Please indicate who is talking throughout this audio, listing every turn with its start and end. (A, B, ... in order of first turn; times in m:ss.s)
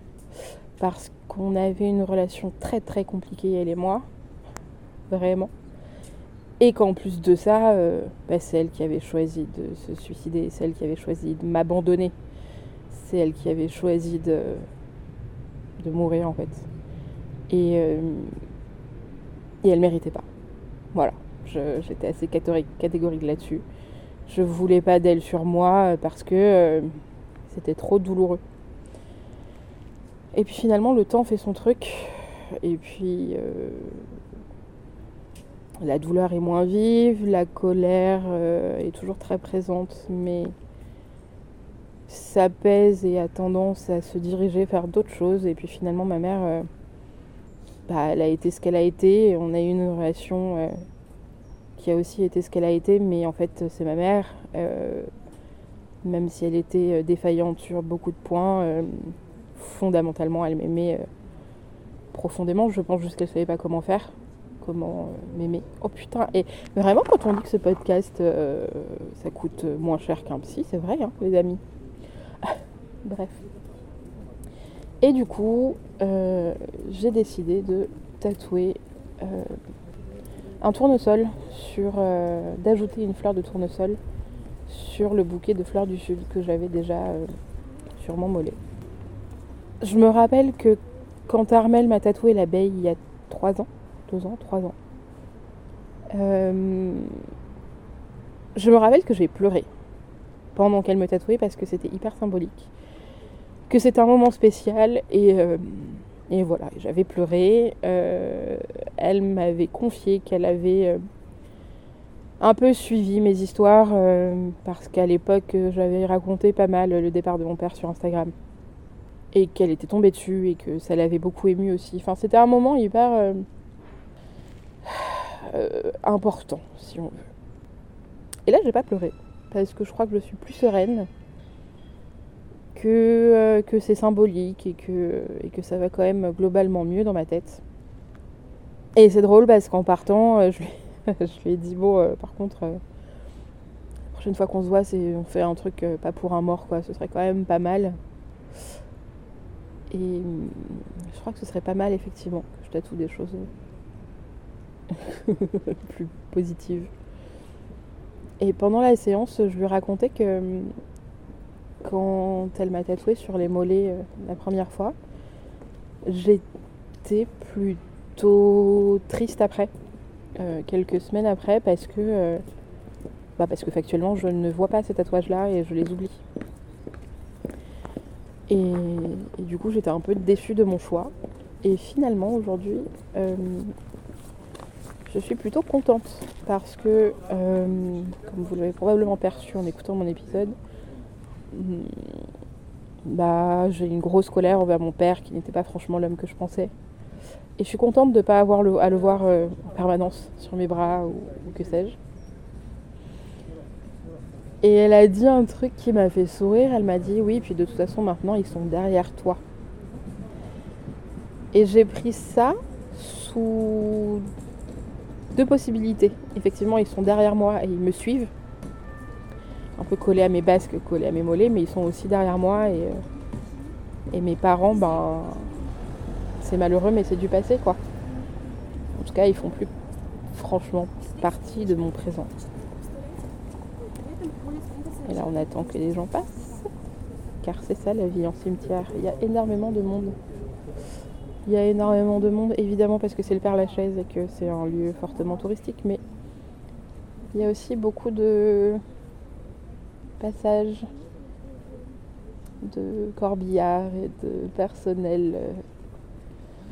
0:00.8-0:04.0 A
0:05.1-0:05.5 A
0:06.6-0:12.1 A
0:12.9-0:14.7 A
0:15.8-0:16.7 A
0:17.5-0:18.3 A
0:19.6-0:20.3 A
0:20.9-0:23.6 A
0:24.3-0:28.4 A
0:30.3-0:34.1 A
0:35.8-0:40.5 A
0:42.1-0:46.7 A
0:47.9-0:50.8 A
0:51.8-0:55.1 A
0:56.0-1:01.0 A
1:02.1-1:11.6 A
1:12.4-1:13.5 A
1:15.0-1:19.6 A
1:20.6-1:24.0 A
1:24.7-1:27.2 A
1:28.0-1:28.6 A
1:29.8-1:34.8 A
1:36.1-1:37.2 A
1:38.5-1:39.7 A
1:40.5-1:42.7 A
1:43.7-1:51.0 A
1:52.4-1:58.3 A
1:59.3-2:03.4 A
2:04.8-2:07.2 A
2:08.4-2:11.1 A
2:12.7-2:17.6 A
2:19.0-2:22.8 A
2:24.1-2:28.0 A
2:29.9-2:33.5 A
2:34.9-2:36.9 A
2:38.4-2:40.7 A
2:41.8-2:44.9 A
2:46.0-2:46.4 A
2:47.0-2:49.7 A
2:50.4-2:52.4 A
2:53.4-2:56.2 A
2:58.5-3:03.7 A
3:05.1-3:10.6 A
3:11.5-3:12.3 A
3:13.0-3:16.7 A
3:17.6-3:22.0 A
3:24.6-3:29.4 A
3:31.5-3:34.3 A
3:35.3-3:38.3 A
3:39.7-3:43.0 A
3:44.1-3:45.5 A
3:46.4-3:47.8 A
3:48.9-3:49.7 A
3:50.3-3:52.3 A
3:55.0-3:56.7 A
3:57.4-4:00.2 A
4:01.4-4:06.0 A
4:07.3-4:08.8 A
4:10.2-4:10.9 A
4:12.6-4:15.6 A